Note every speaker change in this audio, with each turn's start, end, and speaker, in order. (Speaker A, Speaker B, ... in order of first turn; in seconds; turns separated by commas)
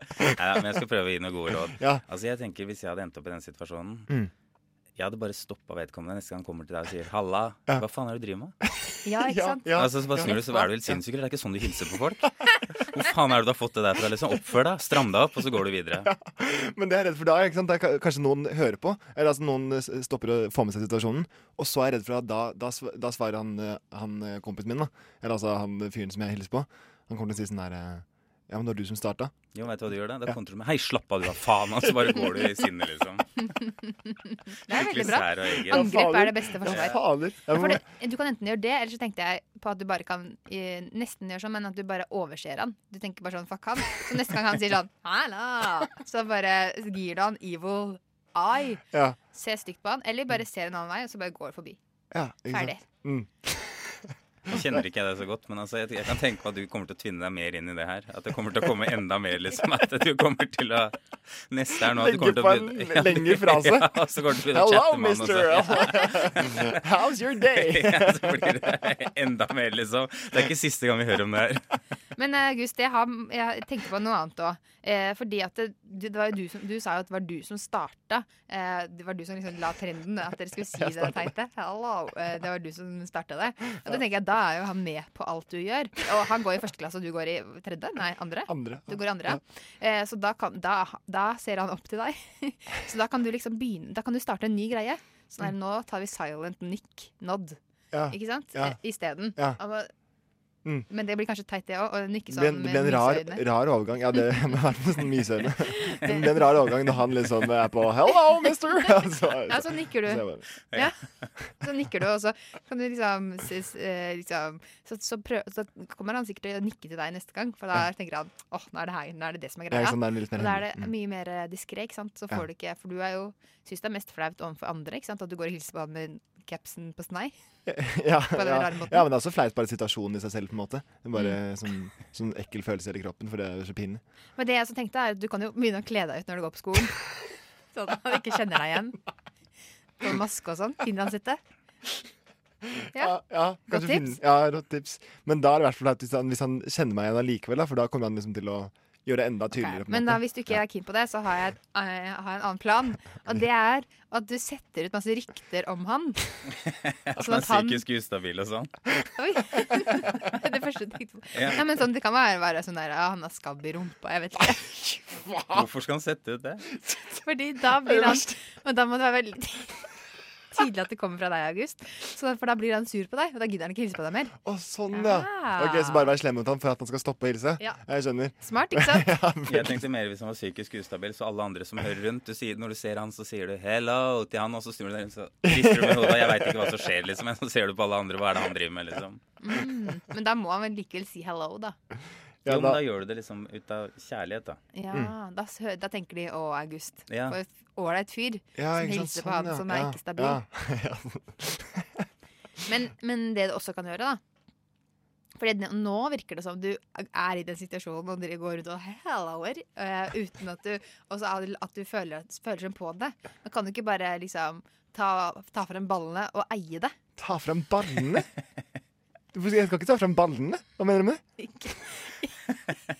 Speaker A: 0.4-4.1, Speaker B: 1.8-2.0, Speaker A: 5.0-8.6, Speaker C: 9.1-9.8, Speaker B: 9.2-11.0, Speaker A: 9.7-12.3, Speaker A: 12.9-16.1, Speaker B: 16.0-29.3, Speaker A: 29.5-33.3, Speaker C: 34.7-51.8, Speaker A: 34.7-35.9, Speaker B: 35.5-37.8, Speaker A: 36.7-37.0, Speaker B: 48.9-49.2, Speaker B: 52.1-53.7, Speaker C: 52.5-52.9, Speaker A: 54.5-61.0, Speaker B: 54.5-54.8, Speaker A: 61.5-66.7, Speaker B: 61.9-63.9, Speaker B: 64.4-68.5, Speaker A: 67.4-71.6, Speaker C: 72.2-97.6, Speaker B: 80.8-81.2, Speaker B: 83.7-84.0, Speaker B: 88.5-89.4, Speaker B: 97.9-98.8, Speaker C: 98.1-99.9, Speaker C: 100.9-103.4, Speaker B: 102.3-110.5, Speaker C: 105.9-106.3, Speaker C: 109.5-111.0, Speaker A: 110.7-111.2, Speaker C: 111.6-127.3, Speaker B: 119.7-120.9, Speaker B: 127.7-134.0, Speaker C: 128.3-129.1, Speaker C: 134.4-136.9, Speaker C: 137.7-139.0, Speaker C: 140.0-141.4, Speaker C: 142.9-144.2, Speaker B: 143.0-150.6, Speaker C: 149.5-156.2, Speaker A: 156.6-158.7, Speaker C: 157.2-157.8, Speaker C: 159.2-164.8, Speaker A: 161.3-161.6, Speaker A: 165.5-166.7, Speaker C: 167.2-169.8, Speaker B: 167.8-168.3, Speaker C: 170.5-174.3, Speaker B: 174.4-179.8, Speaker C: 174.9-176.1, Speaker C: 178.4-179.1, Speaker A: 179.5-189.2, Speaker B: 185.4-186.7, Speaker C: 189.4-191.8, Speaker B: 192.4-192.8, Speaker A: 192.5-194.6, Speaker C: 194.7-200.4, Speaker A: 197.1-197.4, Speaker B: 198.6-202.0, Speaker C: 202.7-204.2, Speaker C: 205.4-217.0, Speaker B: 217.2-218.3, Speaker B: 219.3-221.2, Speaker C: 221.4-222.3